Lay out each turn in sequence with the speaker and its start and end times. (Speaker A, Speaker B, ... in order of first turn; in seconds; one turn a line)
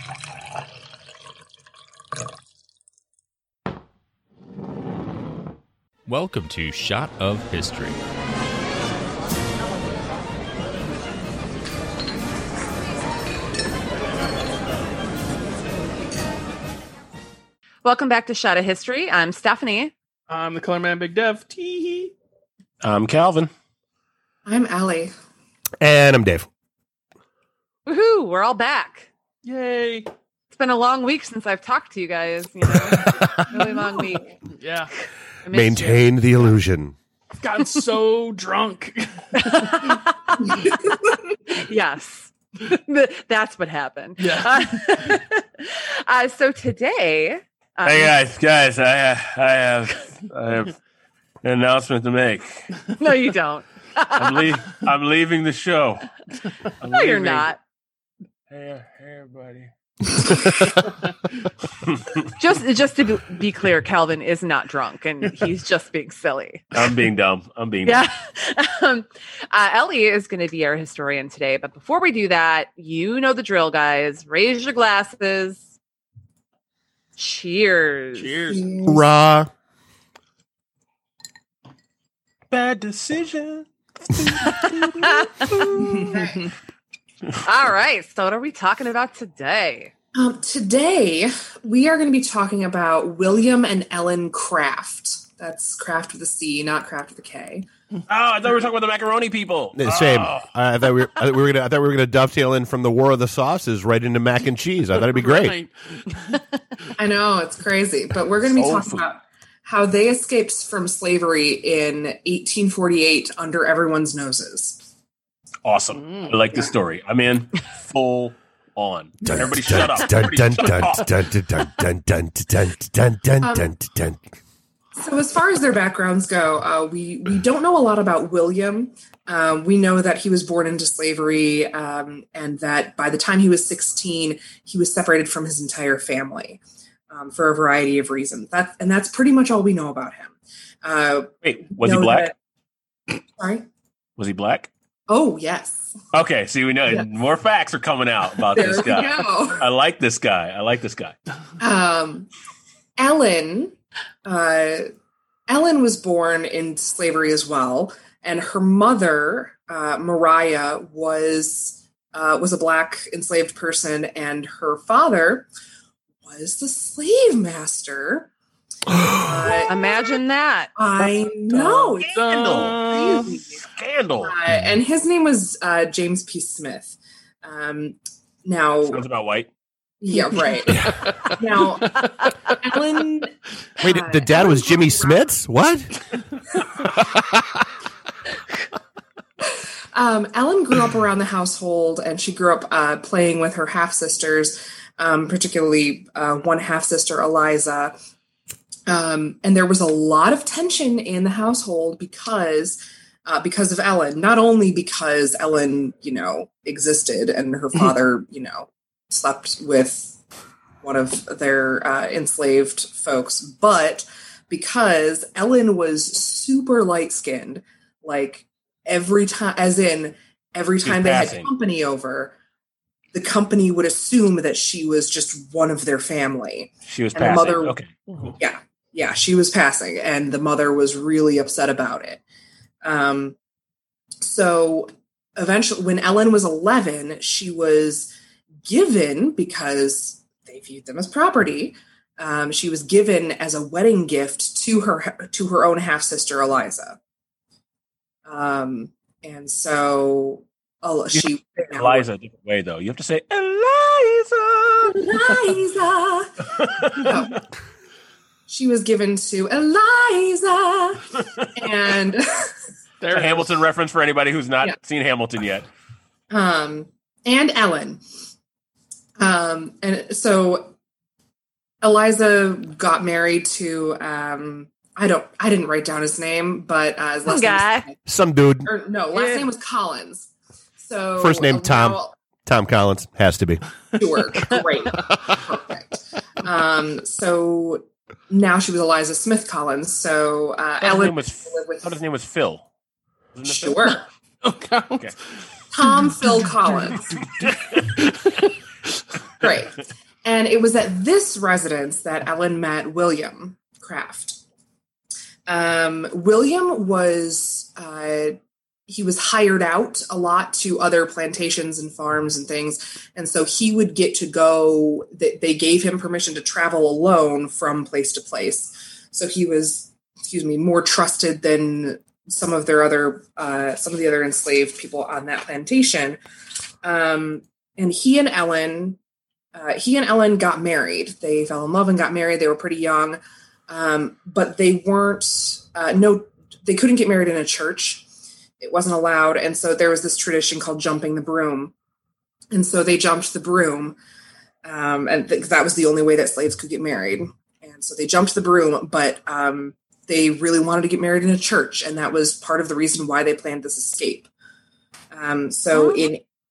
Speaker A: 6.1-8.0
Speaker B: 17.8-19.9
Speaker C: 20.3-22.1
Speaker D: 22.8-23.5
Speaker E: 24.5-25.1
Speaker F: 25.8-26.5
Speaker B: 27.9-29.1
Speaker C: 29.4-30.1
Speaker B: 30.5-34.3
Speaker F: 32.9-33.5
Speaker C: 34.5-34.9
Speaker B: 35.4-36.1
Speaker F: 35.5-37.0
Speaker C: 37.4-40.0
Speaker B: 39.4-40.7
Speaker E: 40.7-41.2
Speaker B: 41.5-48.1
Speaker C: 44.2-45.2
Speaker D: 47.9-50.8
Speaker D: 51.4-52.7
Speaker B: 53.0-54.6
Speaker D: 54.2-56.2
Speaker D: 56.8-57.5
Speaker B: 56.9-57.6
Speaker D: 58.5-60.8
Speaker C: 60.8-61.1
Speaker D: 61.8-62.2
Speaker B: 62.4-66.7
Speaker D: 66.7-68.0
Speaker B: 67.8-75.7
Speaker B: 77.2-78.5
Speaker C: 78.2-78.7
Speaker E: 78.5-79.0
Speaker F: 78.9-79.5
Speaker D: 82.5-86.2
Speaker B: 84.4-85.7
Speaker C: 85.6-86.5
Speaker E: 86.0-86.5
Speaker B: 87.4-89.9
Speaker E: 90.2-97.7
Speaker D: 98.1-100.5
Speaker F: 99.8-105.6
Speaker C: 105.0-106.9
Speaker E: 107.0-114.8
Speaker D: 108.4-109.0
Speaker D: 115.7-121.1
Speaker C: 115.9-116.4
Speaker F: 119.3-124.3
Speaker E: 123.4-123.7
Speaker E: 125.0-142.3
Speaker D: 141.4-142.3
Speaker E: 143.4-143.7
Speaker D: 144.2-144.7
Speaker E: 145.1-145.9
Speaker D: 146.1-151.2
Speaker E: 148.5-149.6
Speaker E: 151.6-152.3
Speaker E: 153.0-153.7
Speaker E: 154.2-154.9
Speaker E: 155.5-165.5
Speaker E: 166.2-168.3
Speaker E: 169.1-170.2
Speaker B: 169.7-170.7
Speaker E: 170.8-173.6
Speaker C: 171.8-173.4
Speaker D: 172.1-172.8
Speaker D: 173.7-174.4
Speaker E: 174.2-179.0
Speaker D: 178.9-179.5
Speaker E: 180.0-185.3
Speaker C: 180.7-182.0
Speaker F: 180.7-181.1
Speaker B: 182.2-182.5
Speaker F: 183.8-186.0
Speaker F: 186.8-187.7
Speaker E: 189.4-197.9
Speaker E: 198.9-210.2
Speaker E: 210.8-222.3
Speaker D: 220.8-221.5
Speaker E: 223.1-227.8
Speaker D: 226.9-228.3
Speaker E: 228.4-232.2
Speaker E: 232.8-233.3
Speaker E: 234.2-238.1
Speaker E: 238.7-247.0
Speaker E: 248.3-252.1
Speaker D: 251.1-255.1
Speaker E: 254.8-257.4
Speaker D: 256.6-257.3
Speaker E: 258.5-262.6
Speaker C: 263.0-263.6
Speaker D: 263.1-265.7
Speaker E: 266.3-268.0
Speaker E: 269.2-270.7
Speaker E: 271.8-278.0
Speaker B: 277.3-277.9
Speaker F: 278.1-278.7
Speaker E: 278.6-282.2
Speaker B: 279.1-279.5
Speaker F: 281.2-283.6
Speaker E: 284.0-292.0
Speaker D: 290.8-292.7
Speaker D: 293.4-294.0
Speaker E: 293.5-294.1
Speaker C: 294.4-295.5
Speaker E: 295.7-297.2
Speaker D: 297.0-297.9
Speaker C: 297.7-298.5
Speaker E: 299.4-304.4
Speaker E: 305.5-326.2
Speaker E: 326.8-329.0
Speaker E: 329.5-338.1
Speaker E: 338.6-341.7
Speaker E: 342.5-344.0
Speaker E: 344.6-354.3
Speaker E: 355.1-356.2
Speaker B: 355.7-356.1